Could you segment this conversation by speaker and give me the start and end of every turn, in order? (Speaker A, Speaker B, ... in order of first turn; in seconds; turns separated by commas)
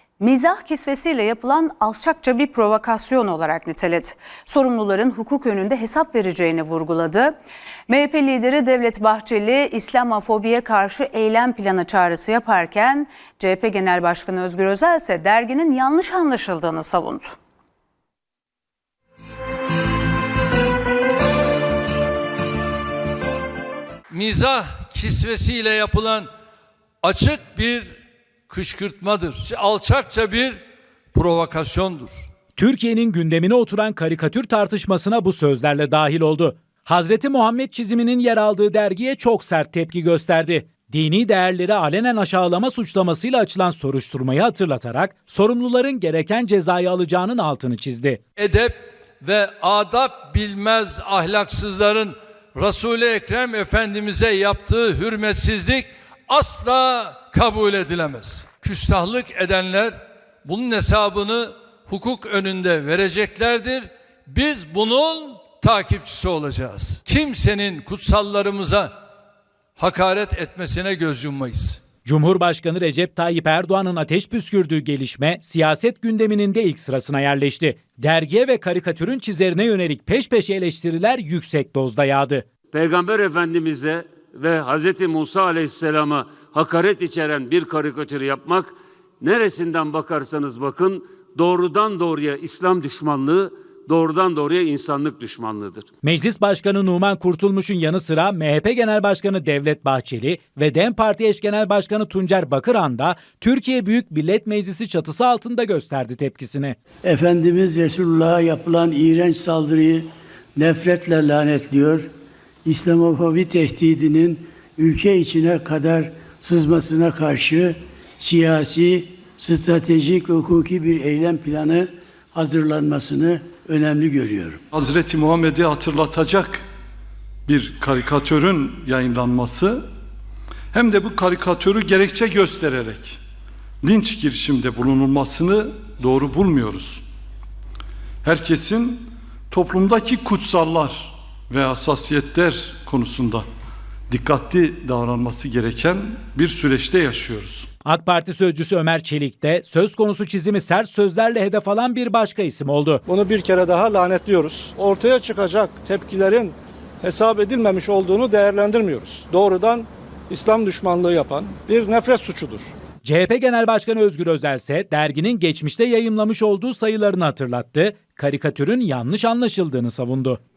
Speaker A: 0.2-7.3, Speaker A: 7.9-17.4, Speaker B: 24.1-26.3, Speaker B: 27.0-27.9, Speaker B: 28.5-30.6, Speaker B: 31.1-32.2, Speaker C: 32.6-48.2, Speaker B: 48.4-68.9, Speaker B: 69.8-71.8, Speaker C: 72.0-82.5, Speaker D: 82.7-95.9, Speaker C: 96.0-106.8, Speaker E: 107.0-112.1, Speaker E: 112.6-124.6, Speaker F: 124.7-126.6, Speaker F: 127.5-129.8, Speaker F: 130.7-133.2, Speaker F: 133.8-137.0, Speaker F: 138.2-143.4, Speaker F: 144.1-147.7, Speaker C: 147.8-153.0, Speaker G: 153.1-162.7, Speaker C: 163.0-170.4